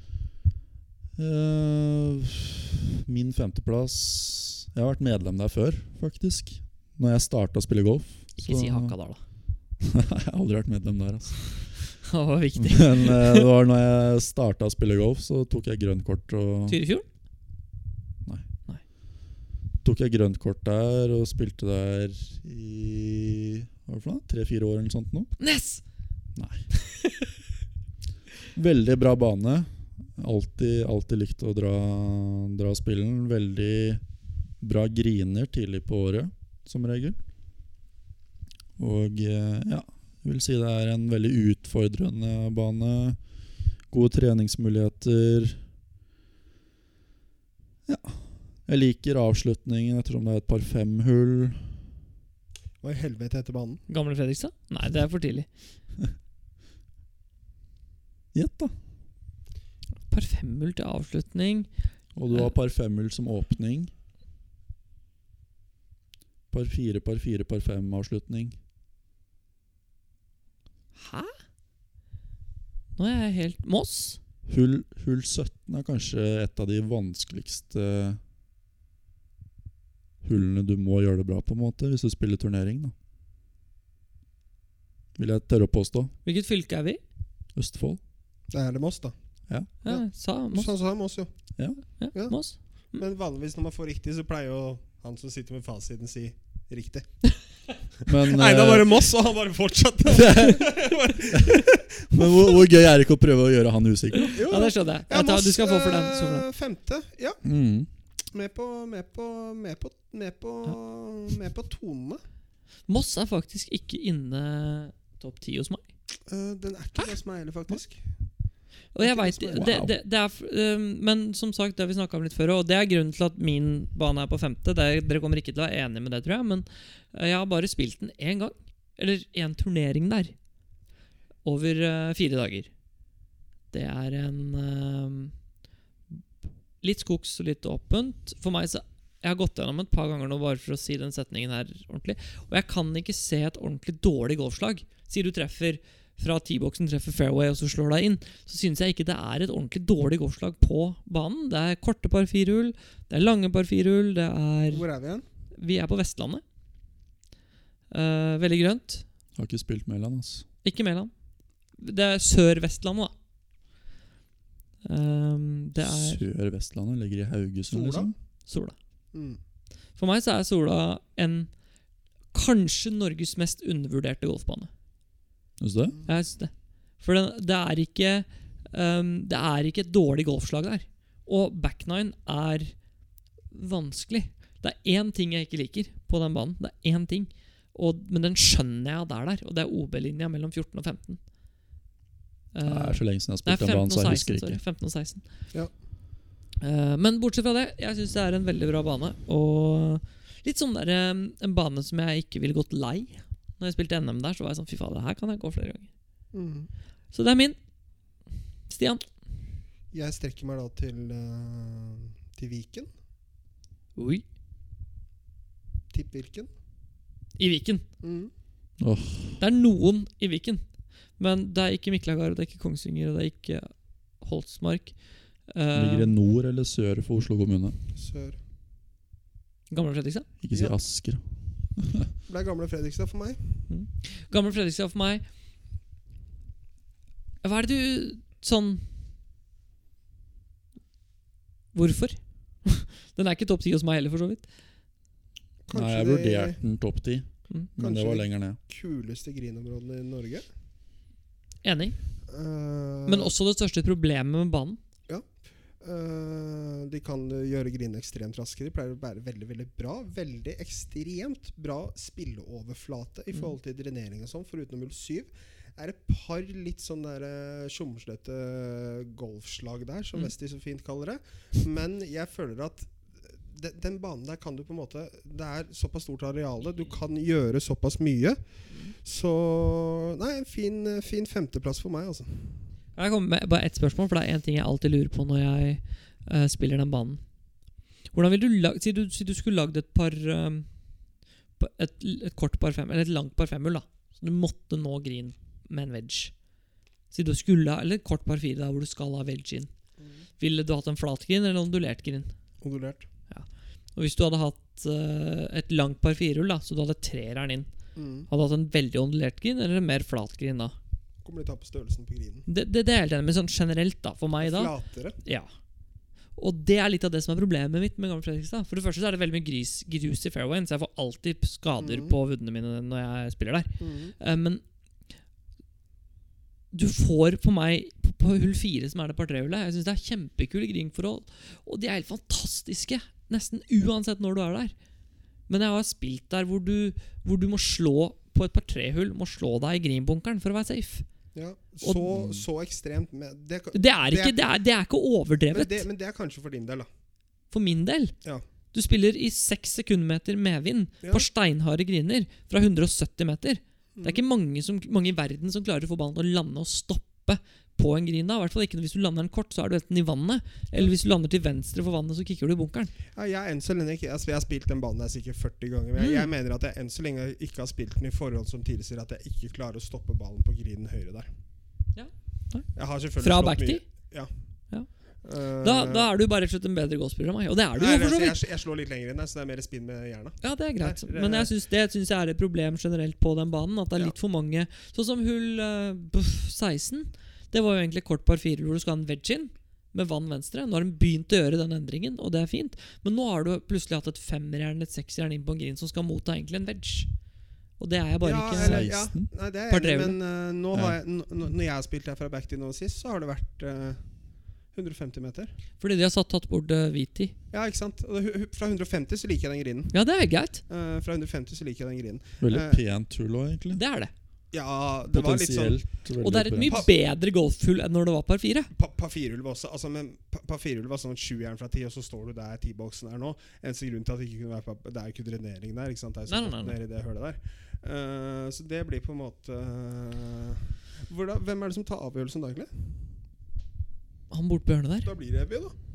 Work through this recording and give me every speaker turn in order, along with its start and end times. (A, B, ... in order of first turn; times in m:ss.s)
0:01.2-0:09.0 A
0:08.4-0:09.2 B
0:09.8-0:11.8 A
0:12.0-0:13.5 B
0:12.6-0:16.8 A
0:16.7-0:17.0 B
0:19.8-0:25.3 A
0:25.4-0:25.8 B
0:26.4-0:26.6 A
0:26.9-0:27.1 B
0:28.5-0:34.0 A
0:34.6-0:37.2 A
0:38.8-0:43.2 A
0:43.9-0:45.6 A
0:47.9-0:51.8 A
0:52.8-0:53.8 C
0:53.9-0:55.5 B
0:58.3-0:58.7 A
1:00.1-1:01.7 B
1:02.2-1:03.9 A
1:06.5-1:08.6 A
1:11.0-1:11.4 B
1:13.0-1:14.2 B
1:14.5-1:18.2 A
1:20.2-1:22.9 A
1:25.2-1:26.1 A
1:26.2-1:27.0 B
1:27.6-1:28.0 A
1:28.5-1:29.2 C
1:29.8-1:30.7 B
1:29.8-1:31.3 C
1:32.0-1:33.0 B
1:32.9-1:37.3 C
1:38.1-1:39.0 A
1:38.1-1:42.6 C
1:40.1-1:40.6 A
1:41.3-1:44.4 A
1:44.2-1:46.4 B
1:44.4-1:47.4 C
1:47.4-1:47.9 A
1:48.3-1:52.2 C
1:52.9-1:55.8 B
1:56.3-1:58.0 C
1:59.0-2:10.3 B
1:59.0-1:59.8 C
1:59.6-1:59.9 A
2:11.4-2:12.7 B
2:13.7-2:15.3 B
2:16.8-2:34.8 B
2:34.7-2:35.3 C
2:35.6-2:36.4 B
2:37.9-2:39.0 B
2:39.4-2:40.4 A
2:40.6-2:41.1 B
2:41.8-2:43.1 B
2:44.8-2:46.2 B
2:45.8-2:48.1 A
2:47.7-2:48.1 C
2:48.5-2:48.8 B
2:49.1-2:49.4 C
2:50.0-2:51.5 B
2:52.3-2:54.7 B
2:55.6-2:56.0 A
2:56.1-3:02.8 B
3:03.5-3:11.2 B
3:12.5-3:15.2 B
3:12.7-3:14.6 A
3:16.6-3:25.9 B
3:26.3-3:26.7 C
3:27.1-3:27.6 B
3:28.7-3:29.0 B
3:29.9-3:32.9 C
3:34.0-3:34.2 B
3:35.9-3:36.5 C
3:37.4-3:37.9 B
3:38.0-3:38.3 C
3:38.8-3:39.4 A
3:39.4-3:40.6 B
3:41.2-3:46.1 B
3:45.7-3:47.8 A
3:48.0-3:48.4 C
3:49.7-3:50.3 B
3:50.4-3:51.2 A
3:50.5-3:50.8 C
3:51.8-3:52.1 A
3:52.3-3:53.7 C
3:53.7-3:55.2 B
3:57.4-3:58.9 B
4:01.7-4:04.4 B
4:05.7-4:06.6 C
4:05.7-4:08.6 A
4:07.8-4:10.4 C
4:11.6-4:12.0 B
4:12.3-4:13.3 C
4:13.1-4:14.8 B
4:15.8-4:32.9 C
4:33.5-4:38.4 C
4:39.0-4:42.6 C
4:43.0-4:47.2 B
4:48.1-4:50.7 B
4:51.6-4:56.3 B
4:57.1-4:59.7 B
5:00.4-5:02.3 B
5:02.6-5:03.0 C
5:03.3-5:07.7 B
5:08.0-5:08.3 C
5:08.3-5:10.7 B
5:11.2-5:12.5 C
5:12.5-5:15.5 B
5:14.4-5:15.2 C
5:16.4-5:24.6 B
5:21.8-5:22.2 C
5:23.8-5:24.2 C
5:26.7-5:34.7 B
5:35.5-5:41.0 B
5:41.4-5:44.4 C
5:42.1-5:42.4 A
5:43.7-5:45.8 B
5:45.5-5:46.9 C
5:47.5-5:48.1 B
5:48.7-6:02.9 B
6:03.1-6:11.3 C
6:06.0-6:06.3 B
6:11.9-6:13.8 B
6:12.7-6:14.3 C
6:15.2-6:16.1 C
6:15.6-6:18.4 B
6:17.8-6:21.5 C
6:20.4-6:37.1 B
6:37.8-6:38.9 B
6:38.2-6:44.0 C
6:38.6-6:39.3 A
6:39.7-6:40.2 B
6:44.7-6:45.5 C
6:45.8-6:47.3 B
6:47.5-6:49.9 C
6:49.9-6:50.6 B
6:50.7-6:52.8 C
6:52.4-6:53.8 A
6:53.7-6:54.1 B
6:54.5-6:55.9 C
6:55.1-6:56.9 A
6:56.2-6:58.7 B
6:58.7-7:12.9 C
7:06.3-7:06.8 B
7:14.3-7:15.1 B
7:15.0-7:15.7 C